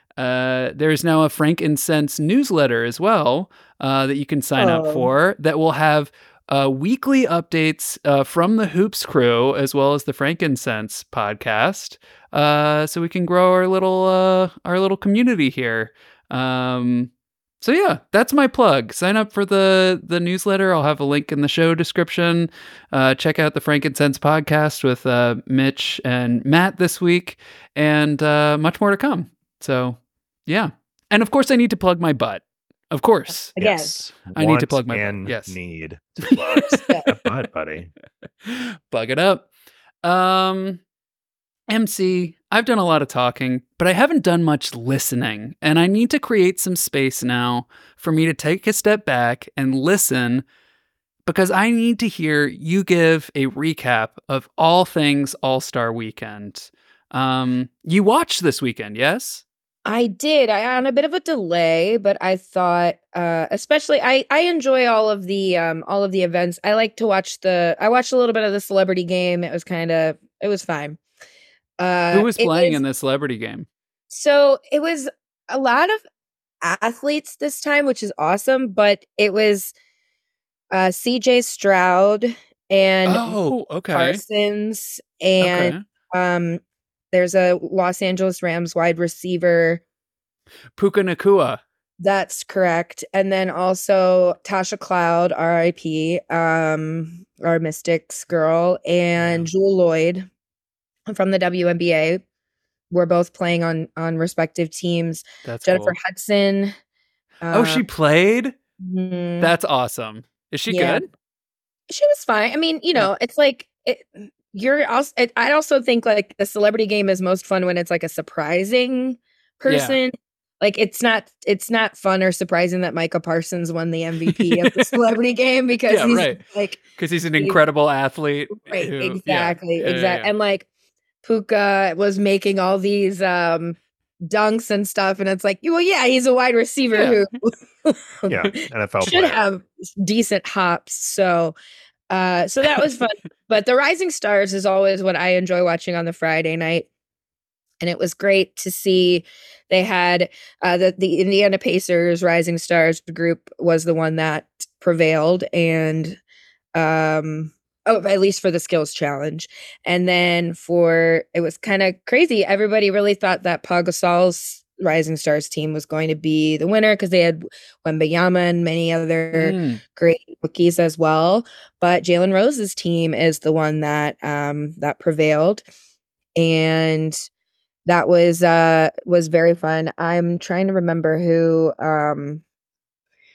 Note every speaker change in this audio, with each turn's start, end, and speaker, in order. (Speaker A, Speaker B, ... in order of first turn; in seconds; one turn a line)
Speaker A: 0.2-17.1
Speaker B: 4.6-5.1
Speaker A: 17.6-33.5
Speaker B: 33.6-34.0
Speaker C: 33.6-37.9
Speaker A: 34.3-35.6
Speaker A: 36.3-36.6
Speaker B: 36.6-37.1
Speaker A: 38.4-39.5
Speaker A: 40.0-40.8
Speaker A: 41.7-50.4
Speaker A: 51.3-59.4
Speaker B: 59.9-71.0
Speaker B: 71.8-72.8
Speaker A: 72.1-73.7
Speaker B: 74.1-76.0
Speaker B: 76.6-79.7
Speaker B: 80.7-86.6
Speaker A: 83.1-84.2
Speaker A: 85.4-85.8
Speaker B: 87.1-89.8
Speaker A: 90.8-91.6
Speaker B: 92.0-100.3
Speaker A: 99.2-99.5
Speaker B: 101.1-102.2
Speaker B: 102.9-106.8
Speaker A: 105.4-106.0
Speaker B: 107.4-107.8
Speaker A: 107.5-108.5
Speaker B: 108.8-109.5
Speaker A: 109.4-111.1
Speaker B: 110.7-111.0
Speaker B: 111.9-126.8
Speaker A: 119.7-120.0
Speaker A: 124.3-124.7
Speaker A: 125.9-126.4
Speaker A: 127.0-130.3
Speaker B: 128.7-130.7
Speaker B: 131.2-141.5
Speaker A: 136.9-137.2
Speaker C: 138.3-139.4
Speaker B: 142.1-146.9
Speaker B: 147.8-156.2
Speaker B: 156.8-175.7
Speaker A: 169.3-169.8
Speaker B: 176.4-177.2
Speaker B: 177.9-182.4